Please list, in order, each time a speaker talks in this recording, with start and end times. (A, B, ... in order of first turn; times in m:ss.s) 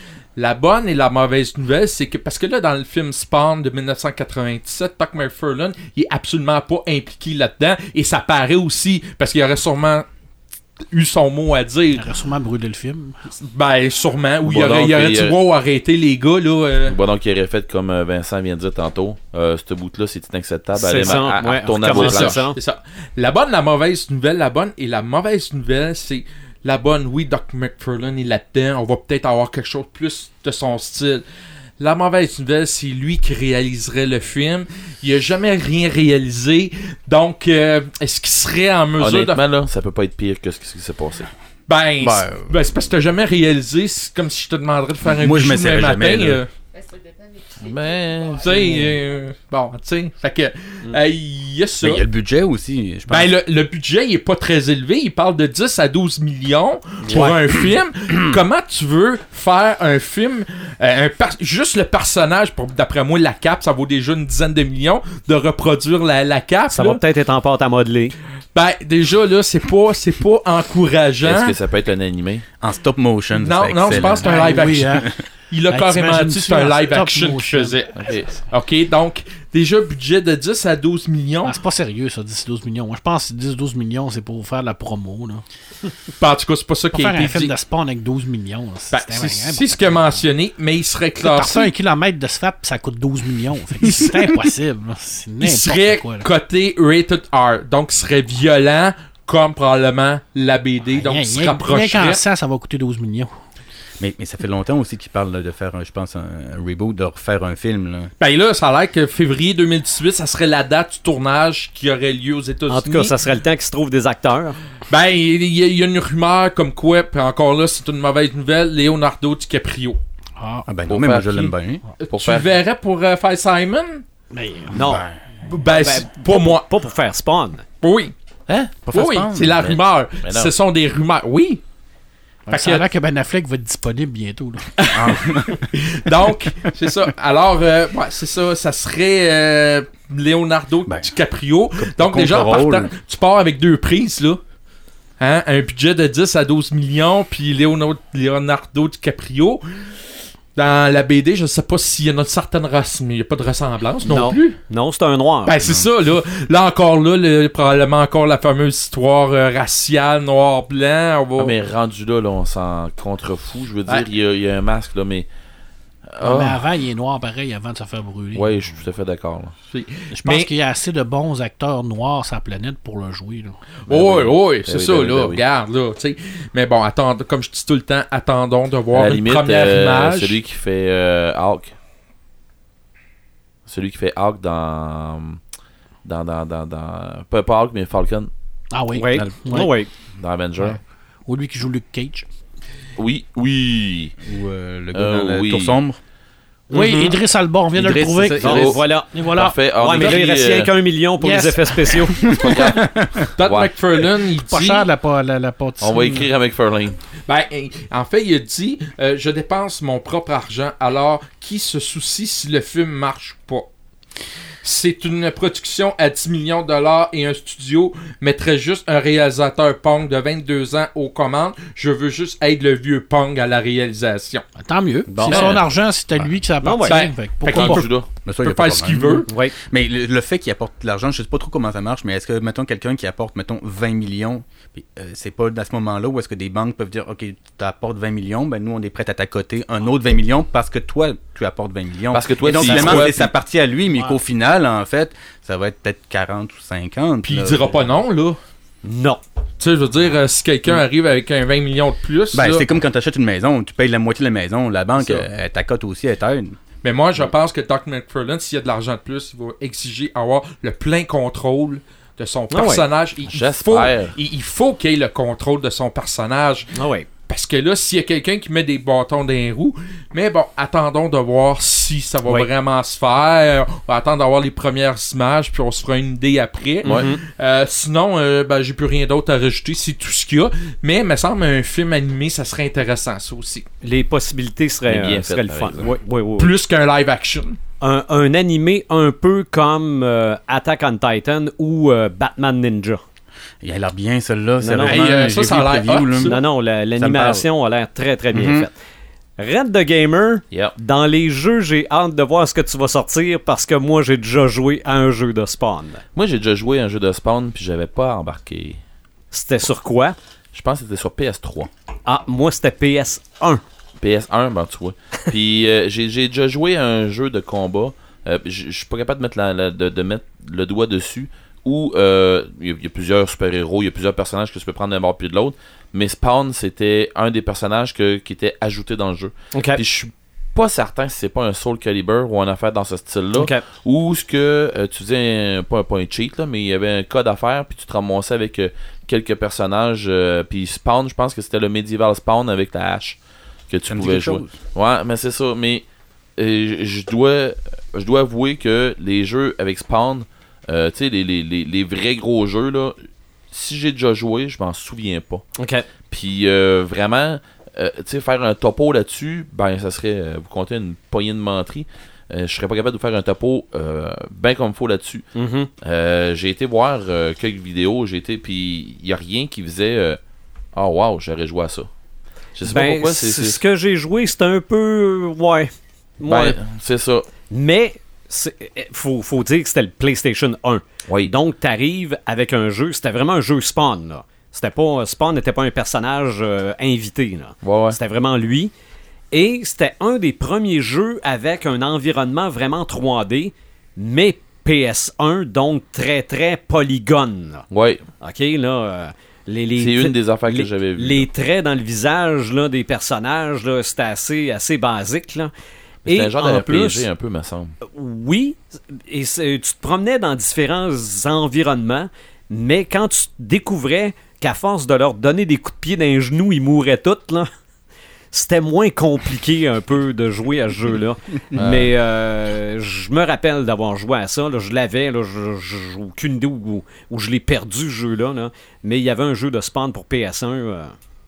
0:00.4-0:10.1 A
0:10.9-0:12.1 A
0:11.9-0:13.2 B
0:13.4-0:17.0 A
0:14.4-0:15.4 C
0:16.9-0:22.4 C
0:20.8-0:22.6 D
0:21.8-0:31.2 A
0:31.8-0:39.4 A
0:39.0-0:41.3 C
0:41.7-0:46.5 A
0:42.0-0:42.5 E
0:45.1-0:46.4 E
0:47.6-0:48.6 C
0:48.4-0:52.0 A
0:48.6-0:48.9 E
0:51.8-0:53.3 E
0:53.1-1:07.0 A
0:57.1-0:57.7 E
1:06.7-1:08.2 D
1:08.5-1:11.6 A
1:11.2-1:12.5 C
1:12.6-1:15.2 E
1:13.4-1:21.6 A
1:13.9-1:15.1 B
1:15.7-1:17.8 B
1:18.0-1:18.4 C
1:21.4-1:25.4 B
1:26.2-1:27.5 A
1:26.9-1:30.2 B
1:28.9-1:31.7 A
1:31.2-1:36.3 B
1:33.9-1:34.3 A
1:35.4-1:42.2 A
1:41.0-1:43.3 B
1:44.0-1:48.1 E
1:48.2-1:53.2 A
1:52.7-1:54.6 D
1:54.9-2:00.0 A
2:00.4-2:00.7 B
2:00.7-2:01.8 E
2:00.9-2:01.5 C
2:02.0-2:04.0 A
2:02.1-2:02.5 C
2:04.3-2:05.0 B
2:04.7-2:05.1 D
2:04.8-2:05.2 E
2:05.4-2:06.7 A
2:05.7-2:07.6 D
2:07.8-2:08.1 A
2:08.6-2:09.7 E
2:08.9-2:11.6 A
2:09.6-2:10.5 C
2:12.5-2:15.2 B
2:12.5-2:12.9 A
2:14.8-2:15.1 A
2:14.9-2:15.7 E
2:15.7-2:24.4 A
2:21.8-2:22.9 E
2:25.2-2:29.6 A
2:30.6-2:34.6 A
2:34.0-2:35.6 D
2:35.5-2:41.5 A
2:41.4-2:45.3 C
2:46.1-2:46.6 C
2:46.2-2:48.8 B
2:48.3-2:49.6 C
2:49.7-2:50.5 A
2:50.1-2:53.6 B
2:53.9-3:00.4 A
2:53.9-2:55.4 C
2:58.9-3:01.8 C
3:03.7-3:05.4 C
3:06.0-3:08.3 C
3:08.7-3:09.7 B
3:08.9-3:09.9 D
3:09.1-3:09.5 E
3:10.1-3:10.8 C
3:11.3-3:12.3 B
3:13.0-3:14.2 C
3:14.2-3:16.0 E
3:14.9-3:15.8 C
3:16.7-3:20.2 B
3:16.7-3:17.2 D
3:17.7-3:18.8 E
3:18.4-3:20.7 C
3:18.4-3:22.3 D
3:21.2-3:22.6 B
3:22.3-3:23.3 E
3:22.5-3:23.7 C
3:23.4-3:24.9 A
3:24.4-3:26.3 B
3:25.8-3:27.0 C
3:27.3-3:33.7 A
3:34.6-3:44.5 A
3:44.6-3:47.8 B
3:45.1-3:45.6 D
3:45.2-3:45.6 A
3:46.6-3:47.0 D
3:46.8-3:49.3 A
3:47.5-3:48.1 C
3:48.2-4:07.9 E
3:49.3-3:49.5 D
4:02.1-4:03.3 C
4:02.6-4:02.9 A
4:07.2-4:08.4 A
4:08.8-4:09.2 D
4:09.6-4:12.7 A
4:12.3-4:16.6 E
4:15.0-4:15.2 C
4:16.8-4:43.7 A
4:22.5-4:22.8 D
4:23.3-4:24.2 C
4:26.8-4:27.1 D
4:36.8-4:37.1 C
4:36.8-4:37.2 D
4:43.8-4:46.5 D
4:44.9-4:45.9 C
4:46.4-4:47.6 A
4:47.8-4:53.0 D
4:53.6-4:56.4 E
4:54.6-4:55.0 D
4:54.8-4:56.4 A
4:56.2-4:58.7 D
4:57.0-4:57.5 E
4:58.3-4:58.7 E
4:59.4-5:06.0 D
5:06.2-5:08.8 C
5:09.3-5:10.2 D
5:10.5-5:11.7 C
5:12.1-5:13.6 D
5:14.0-5:43.2 C
5:29.5-5:29.8 D
5:33.4-5:33.6 D
5:43.7-5:45.9 C
5:43.9-5:44.6 E
5:46.4-5:55.5 C
5:55.6-5:55.8 D
5:56.1-6:05.3 C
6:05.4-6:05.7 D
6:05.8-6:10.2 C
6:10.7-6:11.9 C
6:12.6-6:13.6 C
6:12.6-6:16.6 D
6:16.3-6:17.3 C
6:17.5-6:28.7 D
6:21.1-6:21.3 C
6:27.6-6:28.0 C
6:29.3-6:37.7 D
6:37.7-6:38.0 C
6:38.2-6:45.5 D
6:39.8-6:41.3 C
6:46.0-6:47.1 D
6:46.0-6:47.8 C
6:47.8-6:57.5 D
6:58.3-7:11.0 D
7:01.6-7:01.9 C